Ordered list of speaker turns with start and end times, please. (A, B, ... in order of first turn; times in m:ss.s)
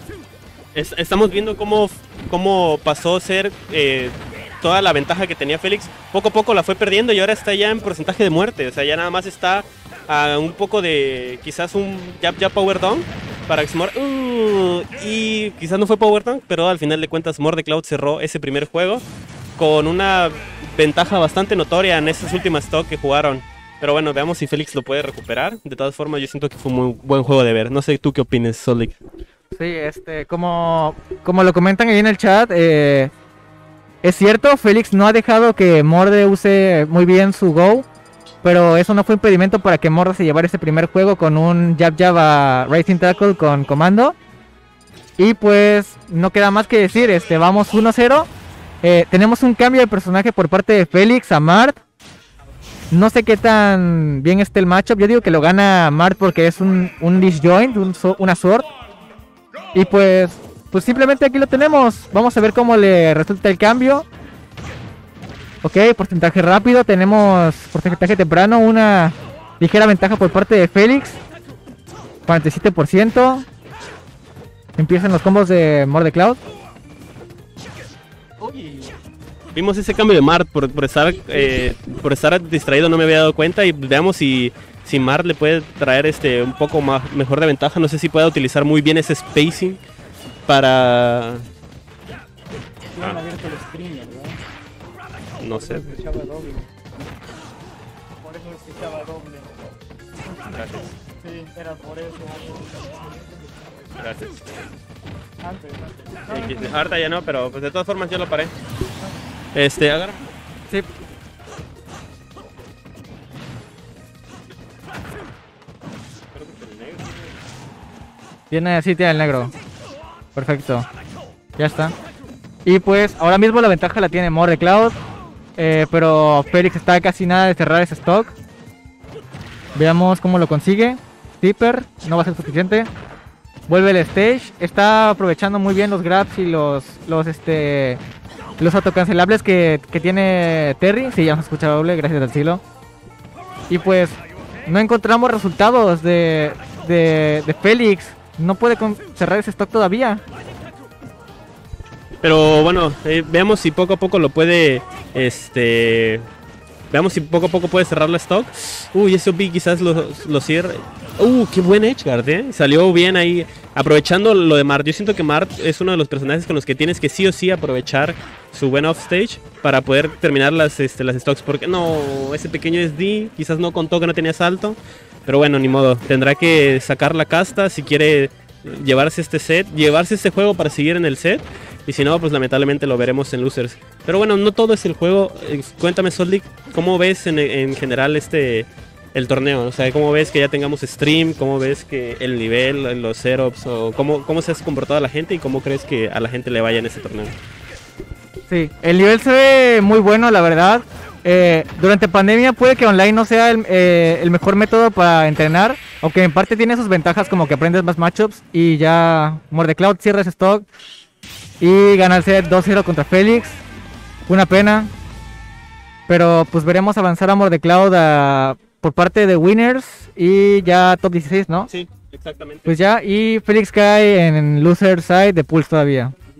0:00.7-0:19.0 A
0:19.6-0:29.0 A
0:29.6-0:33.1 B
0:34.0-0:37.9 B
0:38.4-0:44.2 B
0:45.2-0:48.3 B
0:48.8-0:51.8 B
0:52.9-0:58.7 B
0:59.7-1:04.0 B
1:05.6-1:11.2 B
1:12.3-1:13.5 B
1:14.8-1:16.4 B
1:18.4-1:18.8 C
1:19.6-1:29.8 A
1:30.5-1:31.4 A
1:33.0-1:34.4 C
1:35.4-1:36.0 A
1:35.6-1:36.8 C
1:38.2-1:39.7 C
1:40.5-1:41.0 A
1:41.2-1:43.9 C
1:44.0-1:44.4 A
1:45.4-1:46.6 C
1:46.3-1:48.5 A
1:49.5-1:50.2 A
1:56.3-1:57.3 A
1:58.5-1:59.5 B
2:00.4-2:00.9 B
2:01.6-2:02.0 B
2:02.6-2:05.0 B
2:05.6-2:08.4 B
2:09.8-2:12.9 B
2:13.7-2:18.0 B
2:18.6-2:22.6 B
2:23.7-2:30.2 B
2:32.2-2:36.3 A
2:36.9-3:17.4 A
3:18.5-3:30.7 B
3:31.6-3:33.6 B
3:34.3-3:34.9 B
3:36.1-3:41.7 B
3:41.7-3:42.8 A
3:42.7-3:46.1 B